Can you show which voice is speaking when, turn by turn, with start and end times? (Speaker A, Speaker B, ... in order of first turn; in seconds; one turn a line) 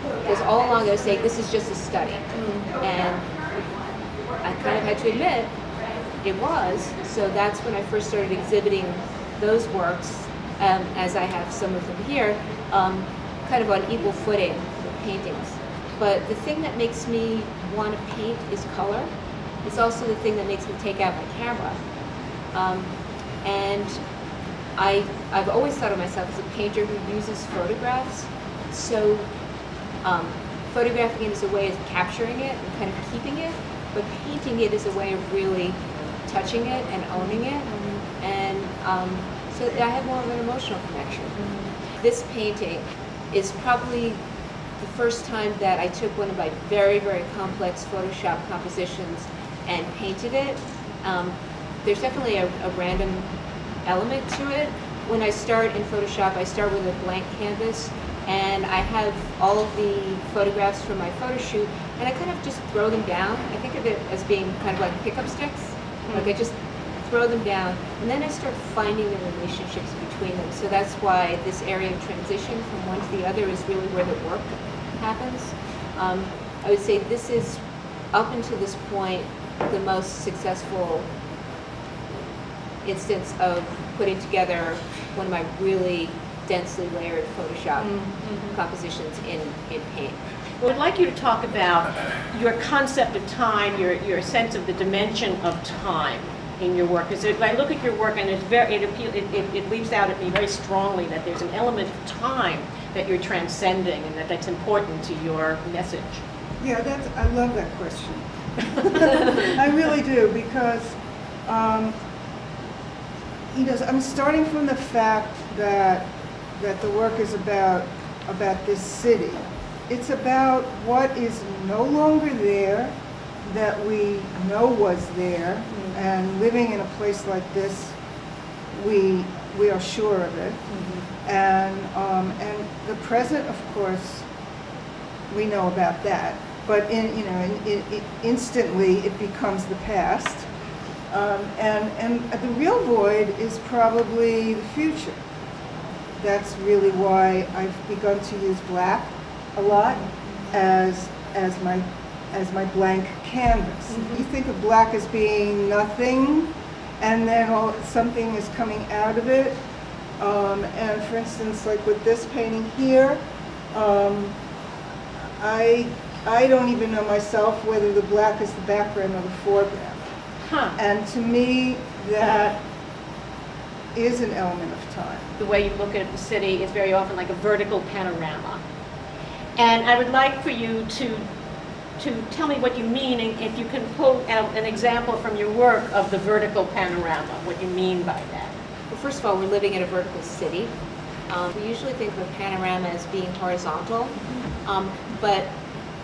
Speaker A: 0.2-3.3
Speaker B: 2.3-2.7
Speaker A: 4.4-5.5
Speaker A: 6.2-19.1
Speaker A: 19.6-21.8
Speaker A: 22.5-22.9
Speaker A: 23.4-24.0
Speaker A: 24.8-29.3
Speaker A: 30.0-41.4
Speaker B: 41.4-41.7
Speaker A: 42.0-44.2
Speaker A: 44.8-53.3
Speaker A: 53.9-81.1
Speaker B: 66.0-66.3
Speaker A: 82.8-88.0
Speaker B: 87.8-88.5
Speaker A: 88.5-90.2
Speaker B: 90.6-106.2
Speaker C: 106.6-111.9
Speaker C: 113.5-122.9
Speaker C: 123.4-128.0
Speaker B: 125.7-126.0
Speaker C: 128.7-130.7
Speaker B: 130.7-131.1
Speaker C: 131.2-134.2
Speaker C: 135.3-140.4
Speaker C: 141.1-145.2
Speaker C: 146.2-159.6
Speaker B: 153.9-154.2
Speaker C: 160.2-163.2
Speaker C: 163.7-164.3
Speaker C: 165.4-170.0
Speaker B: 170.4-170.8
Speaker C: 170.8-172.6
Speaker C: 173.9-175.3
Speaker B: 175.4-178.6
Speaker B: 179.6-181.2
Speaker B: 182.0-188.5
Speaker A: 188.9-190.7
Speaker A: 191.3-195.5